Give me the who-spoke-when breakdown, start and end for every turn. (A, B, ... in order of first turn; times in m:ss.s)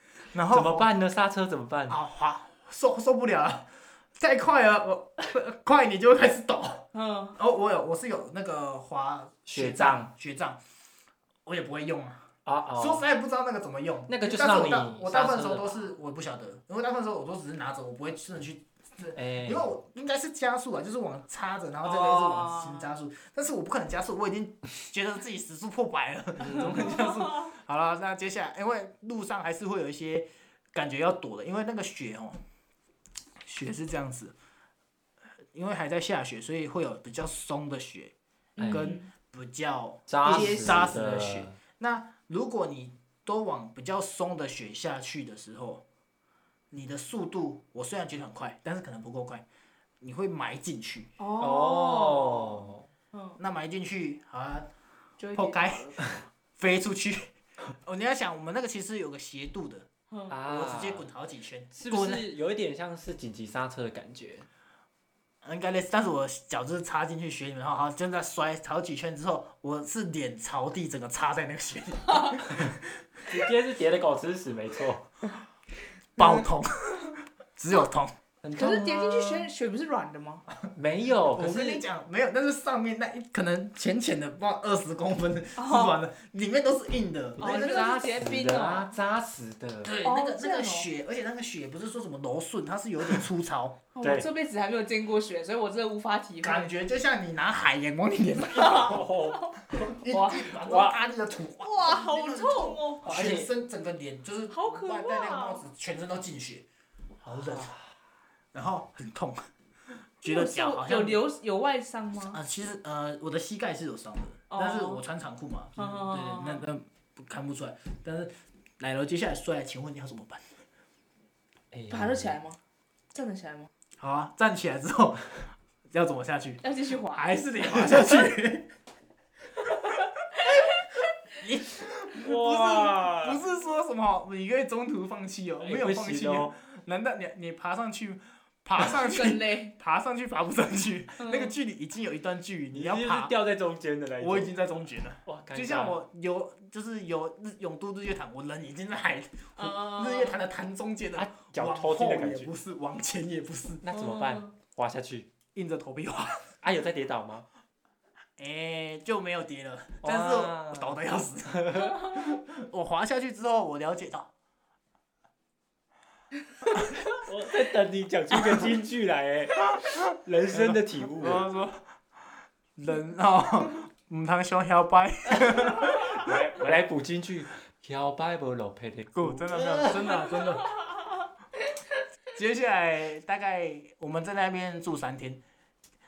0:00.3-0:00.9 A
0:00.4-0:02.0 B
0:01.9-0:10.6 A
0:06.9-0:07.4 C
0:09.5-0:10.1 B
0:11.5-0:32.4 A
0:12.4-0:13.1 B
0:14.1-0:15.8 B
0:19.2-0:19.7 B
0:21.8-0:22.9 C
0:26.4-0:27.0 B
0:33.4-0:34.4 A
0:35.5-0:38.1 A
0:38.6-0:39.1 C
0:38.6-0:38.9 B
0:38.7-0:45.8 A
0:40.1-0:41.6 B
0:40.2-0:40.9 C
0:46.7-0:49.5 A
0:50.0-0:51.2 A
0:51.2-0:53.4 C
0:51.4-0:52.9 B
0:53.4-0:54.7 A
0:55.2-0:56.1 C
0:55.4-0:59.9 A
1:00.3-1:01.1 B
1:00.4-1:02.3 A
1:01.7-1:04.5 B
1:05.4-1:13.2 A
1:13.2-1:15.1 B
1:16.2-1:18.1 A
1:18.4-1:19.5 B
1:18.6-1:20.4 C
1:20.7-1:21.8 B
1:21.3-1:27.8 A
1:25.6-1:26.0 C
1:27.4-1:30.0 B
1:27.4-1:28.9 C
1:29.8-1:33.8 A
1:30.0-1:30.9 C
1:34.0-1:36.7 C
1:34.0-1:34.3 B
1:36.4-1:39.0 A
1:38.6-1:39.6 C
1:38.6-1:41.0 B
1:39.7-1:46.7 A
1:41.6-1:43.0 C
1:43.0-1:43.5 B
1:44.5-1:45.7 C
1:47.2-1:47.7 A
1:47.3-1:47.8 B
1:48.5-1:49.4 A
1:50.2-1:51.2 A
1:50.2-1:52.4 C
1:52.3-2:00.6 A
1:54.5-1:55.0 C
1:55.8-1:56.7 C
2:01.7-2:02.4 B
2:01.9-2:02.6 C
2:03.1-2:03.7 C
2:04.0-2:08.7 A
2:06.6-2:08.0 C
2:10.4-2:10.9 C
2:11.4-2:23.4 A
2:12.1-2:13.4 B
2:15.6-2:16.5 B
2:18.8-2:19.8 C
2:21.2-2:21.5 C
2:22.7-2:24.5 B
2:24.2-2:33.9 A
2:25.2-2:26.0 B
2:29.6-2:30.4 C
2:31.2-2:32.5 B
2:33.8-2:35.3 B
2:34.0-2:34.5 C
2:35.5-2:36.5 A
2:36.6-2:37.5 B
2:38.4-2:44.3 A
2:40.0-2:42.2 B
2:47.1-2:51.5 B
2:50.5-2:51.8 A
2:52.8-2:56.4 A
2:55.6-3:00.3 B
2:59.1-3:00.8 A
3:02.3-3:05.4 A